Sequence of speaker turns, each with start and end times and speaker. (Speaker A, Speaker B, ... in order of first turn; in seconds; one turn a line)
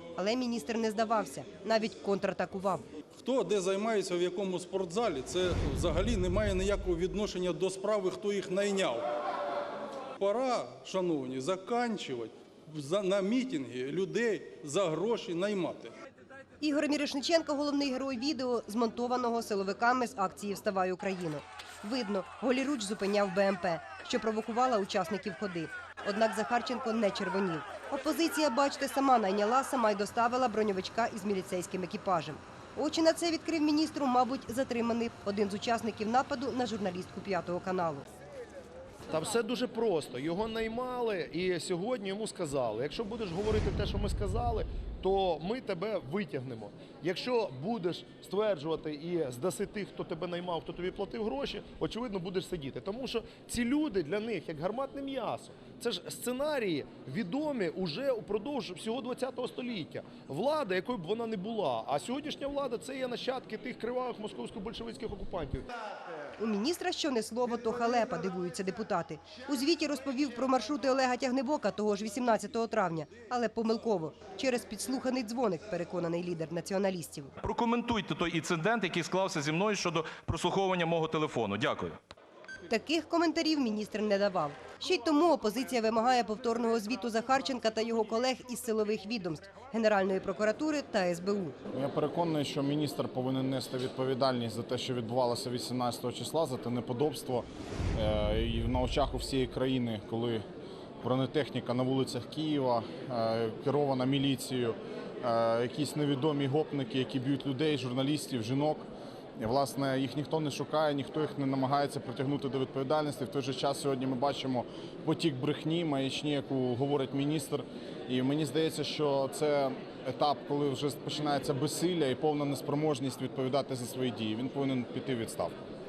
Speaker A: 0.2-2.8
Speaker B: 3.2-9.1
Speaker B: 10.2-15.9
Speaker A: 16.6-38.0
Speaker C: 39.1-65.7
Speaker A: 66.4-77.3
Speaker D: 77.4-82.0
Speaker A: 82.7-91.5
Speaker E: 91.7-100.4
Speaker E: 101.0-108.8
Speaker E: 109.4-125.5